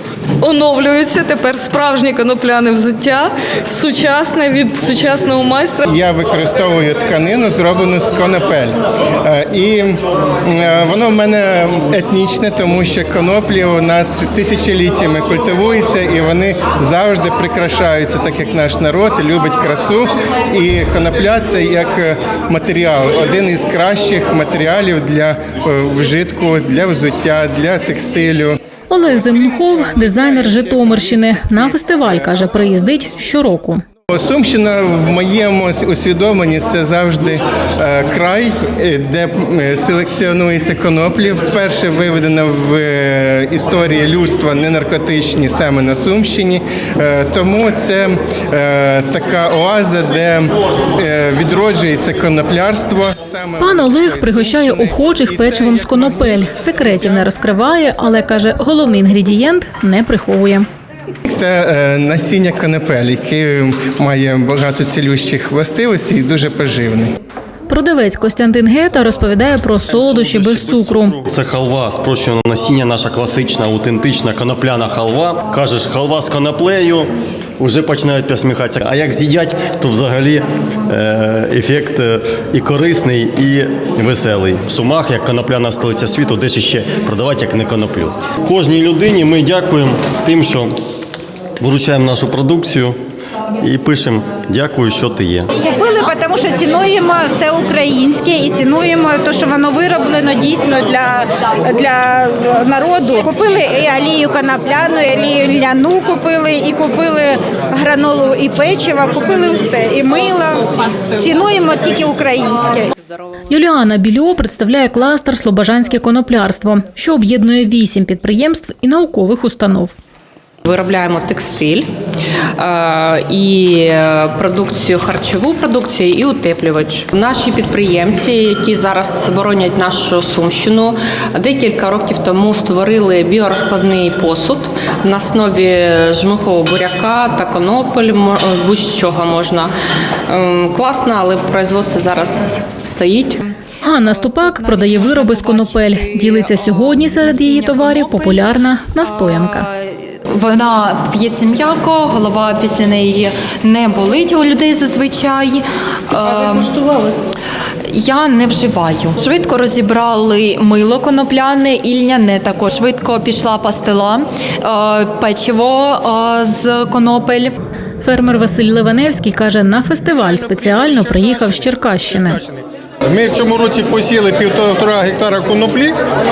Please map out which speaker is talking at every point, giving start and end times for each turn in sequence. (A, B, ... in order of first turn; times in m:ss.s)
0:00.4-0:05.9 A
0:05.8-0:28.6 B
0:28.9-0:33.8 C
0:30.1-0:31.6 B
0:34.1-0:57.2 B
0:53.6-1:00.6 C
1:01.2-1:07.1 B
1:07.7-1:11.2 C
1:09.9-1:30.7 D
1:31.6-1:33.0 D
1:33.6-1:35.5 D
1:35.6-1:52.9 E
1:53.5-1:59.9 C
2:00.6-2:01.9 F
2:02.6-2:19.7 F
2:20.3-2:23.4 F
2:23.8-2:29.6 C
2:24.0-2:36.8 G
2:36.4-2:37.1 A
2:37.9-2:47.5 G
2:48.0-2:52.4 C
2:50.5-2:51.2 H
2:52.4-2:56.0 H